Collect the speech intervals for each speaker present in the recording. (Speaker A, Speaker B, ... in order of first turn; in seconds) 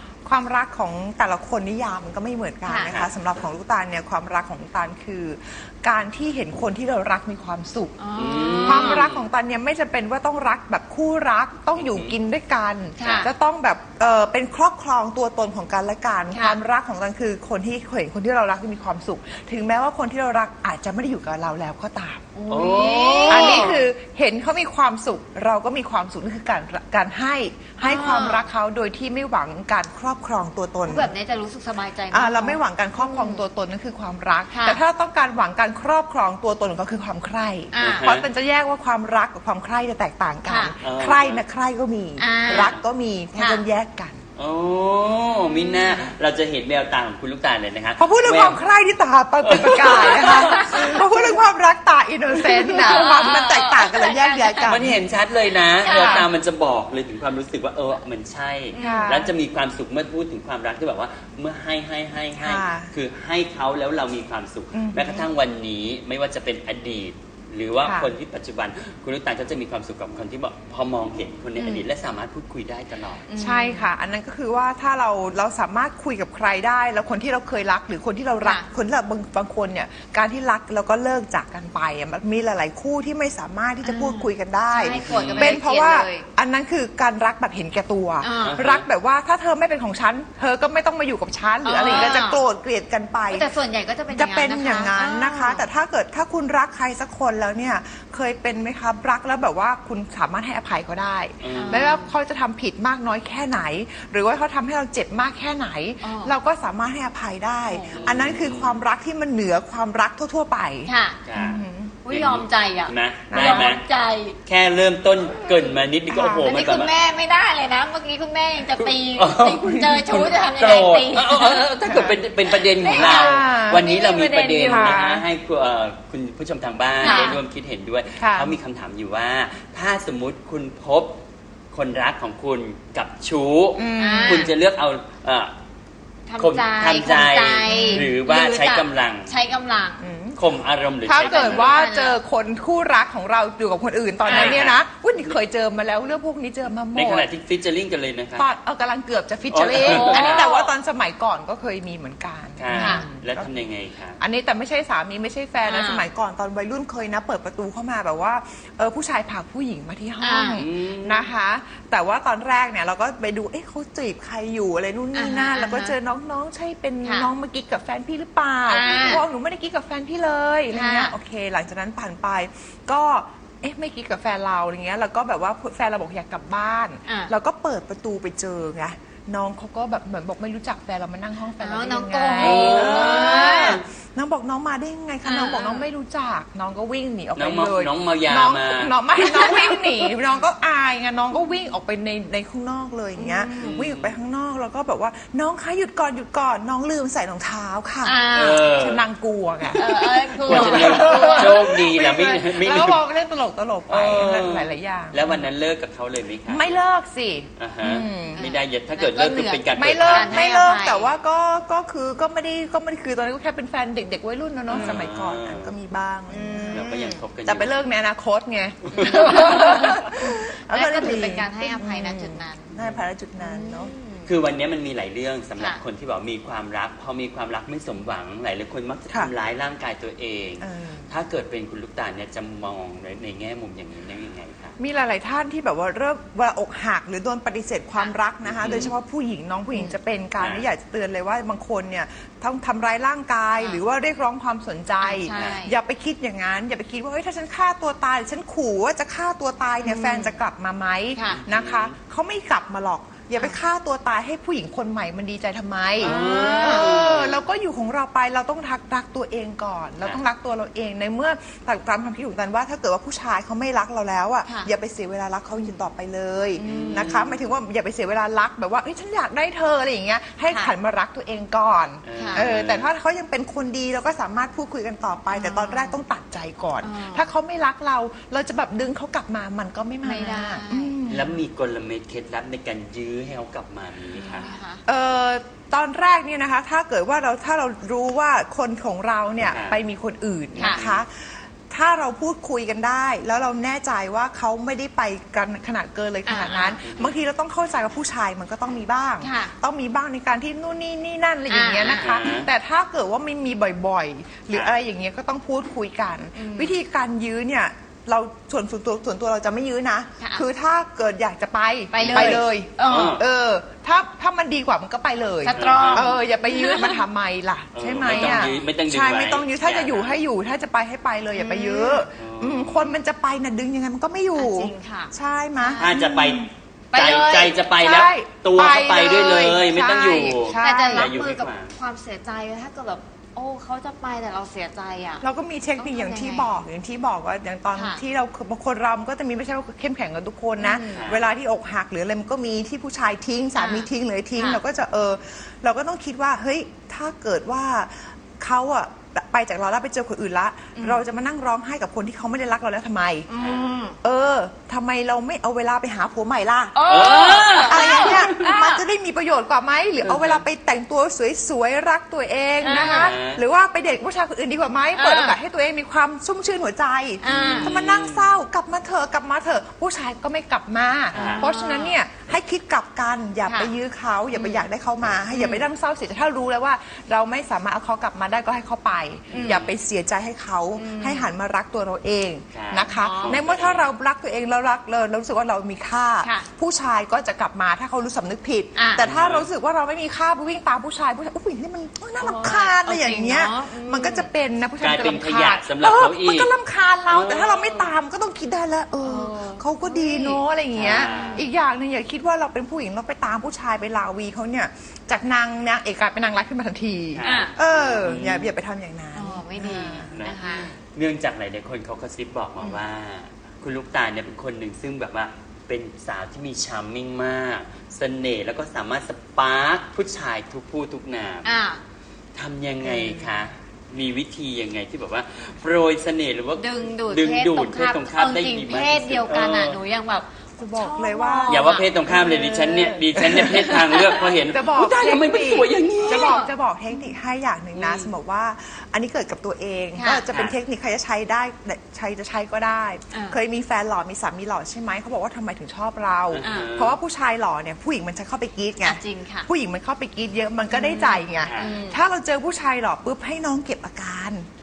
Speaker A: 0.2-8.0, 8.6-22.2, 23.3-31.1, 32.1-44.2, 48.0-55.0, 55.9-56.3, 58.8-59.4, 62.4-62.9, 64.7-65.2, 67.8-68.1, 73.3-93.5, 94.1-111.9, 113.3-113.7, 116.1-116.5, 121.8-122.2, 122.8-123.9, 124.6-125.2, 127.1-127.3, 128.2-128.6, 133.8-134.5, 137.7-138.1, 140.0-140.4, 141.0-147.3, 148.3-153.5, 154.2-199.8, 200.4-205.5, 206.5-208.4, 209.7-216.8, 217.4-223.9, 230.6-231.1, 234.8-281.4, 284.9-326.5, 327.7-331.1, 335.2-353.3, 354.0-356.8, 357.7-410.2, 422.8-423.4, 430.6-432.4, 433.2-454.5
Speaker B: 2.6-2.9, 8.0-9.1, 12.9-13.3, 16.3-16.6, 22.3-23.8, 27.8-28.5, 30.8-33.4, 34.5-34.8, 37.7-38.1, 40.4-40.7, 42.2-42.8, 43.3-43.6, 45.4-46.0, 50.0-51.4, 52.7-54.9, 55.8-56.2, 58.7-59.2, 71.5-71.8, 73.3-73.9, 78.4-78.7, 83.8-86.3, 88.2-88.6, 91.6-92.4, 93.3-95.7, 101.5-102.1, 106.0-106.4, 107.7-108.1, 110.8-111.2, 112.0-114.4, 115.5-115.7, 116.4-121.7, 122.5-125.1, 127.0-127.4, 134.0-134.5, 136.3-140.0, 141.2-142.2, 144.2-144.6, 149.7-150.7, 152.7-153.0, 155.6-156.1, 160.2-160.6, 165.1-165.9, 167.0-167.3, 168.7-169.2, 170.7-171.1, 177.0-177.3, 181.6-183.8, 185.2-185.8, 189.4-189.7, 193.1-193.8, 198.0-198.8, 199.7-201.6, 208.3-211.1, 214.7-215.0, 216.3-217.2, 218.9-222.7, 223.4-224.3, 239.7-239.9, 243.6-243.8, 245.0-245.7, 249.8-250.4, 251.1-251.4, 256.0-256.9, 264.4-264.7, 265.5-265.8, 266.5-267.1, 270.5-270.7, 272.1-272.5, 275.3-276.0, 276.8-277.3, 280.0-280.9, 284.1-284.8, 290.6-290.8, 296.2-296.8, 299.2-299.5, 301.5-302.1, 306.3-306.8, 310.2-310.4, 311.9-313.2, 315.4-317.1, 318.2-318.7, 321.3-322.1, 324.3-325.9, 326.9-327.6, 330.5-335.2, 335.8-336.5, 337.7-338.0, 340.6-341.1, 343.5-344.6, 350.7-351.0, 353.3-354.0, 356.7-358.8, 362.6-363.1, 364.9-365.4, 367.2-367.7, 371.1-372.0, 373.4-373.7, 374.3-374.6, 375.3-375.6, 379.3-379.7, 380.7-381.3, 382.9-383.4, 386.2-386.5, 388.7-389.1, 392.2-394.3, 399.0-401.5, 407.2-407.5, 409.1-410.7, 421.4-421.8, 426.5-434.3, 436.0-437.1, 439.9-440.3, 443.1-443.4, 446.4-446.8, 448.8-449.5, 450.7-452.0
Speaker C: 2.8-3.2, 8.1-9.3, 11.7-12.1, 13.0-13.3, 22.5-23.8, 37.8-38.3, 40.8-41.4, 42.5-42.8, 44.4-48.6, 49.4-50.7, 52.7-53.4, 54.6-73.3, 84.9-85.6, 88.4-88.8, 101.4-102.0, 107.9-108.8, 111.2-113.8, 114.4-116.9, 118.8-131.2, 131.7-135.5, 136.4-139.3, 140.3-141.8, 144.3-144.8, 146.9-148.5, 149.5-150.5, 152.6-154.2, 160.5-161.3, 168.8-169.2, 182.3-183.8, 187.3-189.6, 193.6-194.2, 198.3-199.1, 199.7-203.1, 203.9-206.8, 207.6-210.4, 214.7-215.7, 216.7-217.8, 218.9-219.8, 222.8-223.1, 224.3-234.8, 238.4-238.9, 240.4-240.7, 245.3-245.6, 251.2-252.0, 256.0-257.4, 266.6-267.4, 272.0-272.9, 281.1-284.5, 289.4-289.8, 290.6-291.0, 296.8-297.2, 301.8-302.5, 304.5-304.7, 311.9-313.2, 315.5-316.1, 317.7-320.2, 322.1-322.9, 325.8-331.7, 340.9-341.3, 353.3-353.7, 356.8-358.4, 360.0-360.4, 362.7-363.4, 367.2-368.4, 371.1-371.4, 379.3-379.7, 382.5-383.9, 389.0-389.5, 394.8-396.5, 397.1-397.9, 400.7-401.5, 407.1-408.5, 410.1-421.5, 422.3-429.8, 431.5-436.4, 437.7-438.1, 440.3-440.6, 446.3-447.0, 451.4-451.8